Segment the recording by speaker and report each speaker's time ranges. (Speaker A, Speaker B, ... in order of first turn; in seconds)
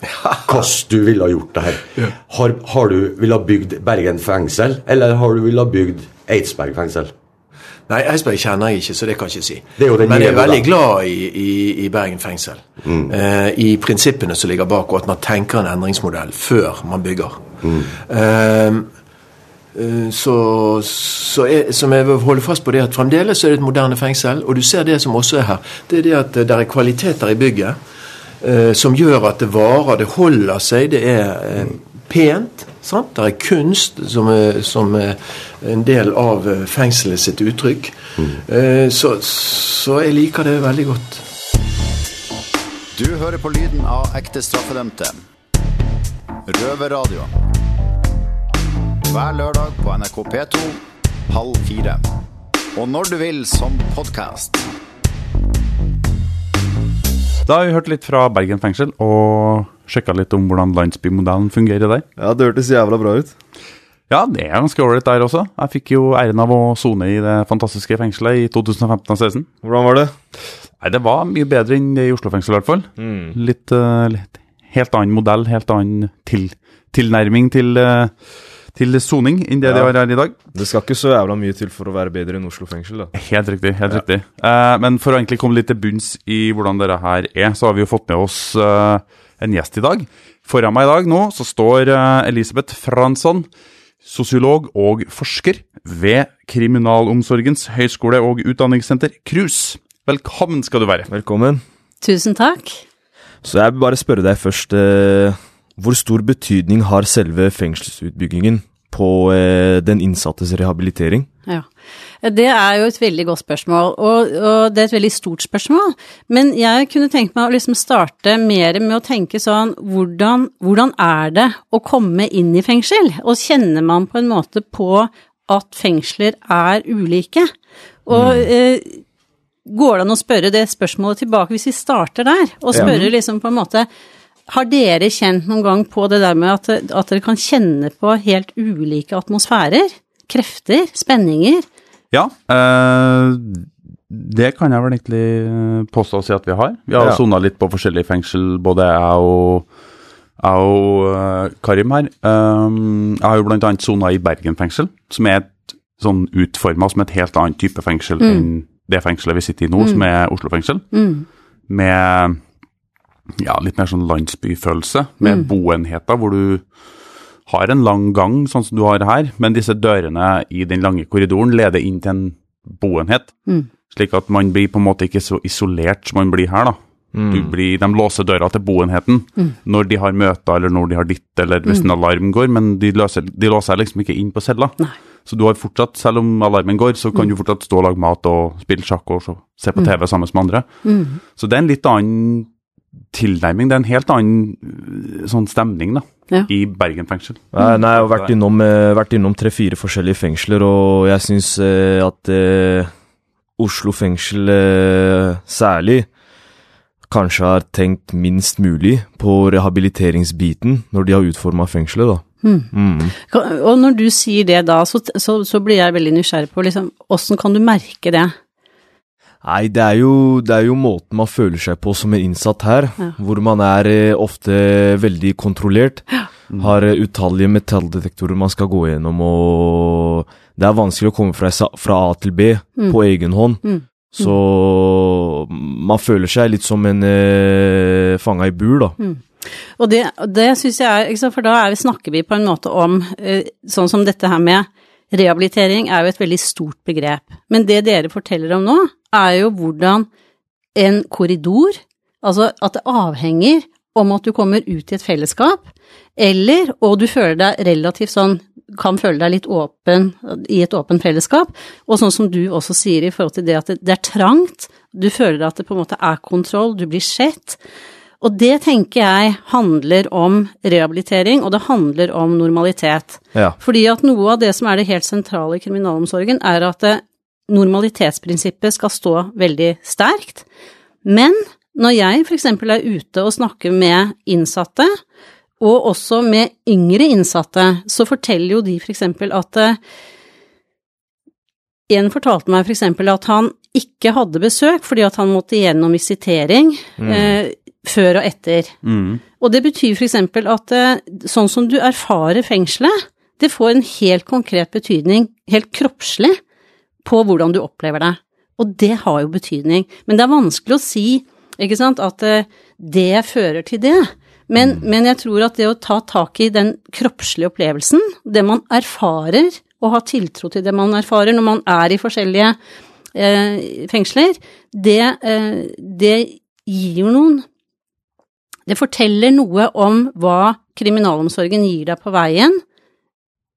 Speaker A: 0.2-0.6, 7.9-18.9, 19.8-27.8, 28.4-41.3
Speaker B: 0.5-7.1, 9.8-10.7, 12.8-13.1, 17.6-17.9
Speaker C: 43.0-45.2, 46.5-47.3, 49.1-52.0, 52.8-54.6
Speaker D: 57.5-62.1, 64.1-69.5, 70.8-78.1, 78.7-80.4, 83.1-93.5, 94.0-101.1, 142.1-149.7, 150.4-160.9, 161.7-162.4, 163.4-166.7, 167.5-173.4, 173.9-176.8, 177.3-190.7, 191.4-192.5, 193.1-198.3, 298.8-299.2
Speaker E: 62.2-63.3, 69.6-70.1, 73.0-73.4, 79.6-79.9, 80.5-83.1, 101.1-101.6, 103.4-111.3, 128.1-128.4, 132.7-133.0, 147.0-147.2, 177.1-177.5, 197.5-202.9, 203.6-206.1, 207.1-213.1, 219.4-238.9, 297.0-297.4
Speaker F: 102.0-102.8, 112.2-127.5, 128.1-129.0, 129.7-133.9, 134.5-141.7, 158.2-158.5, 160.9-161.2, 165.2-165.5, 190.8-191.2, 212.4-218.3, 232.8-234.3, 239.0-250.1, 250.8-267.6, 268.2-280.5, 281.1-285.0, 285.6-289.8, 291.9-298.7, 299.4-306.4, 307.1-322.6, 323.1-327.4, 328.7-332.6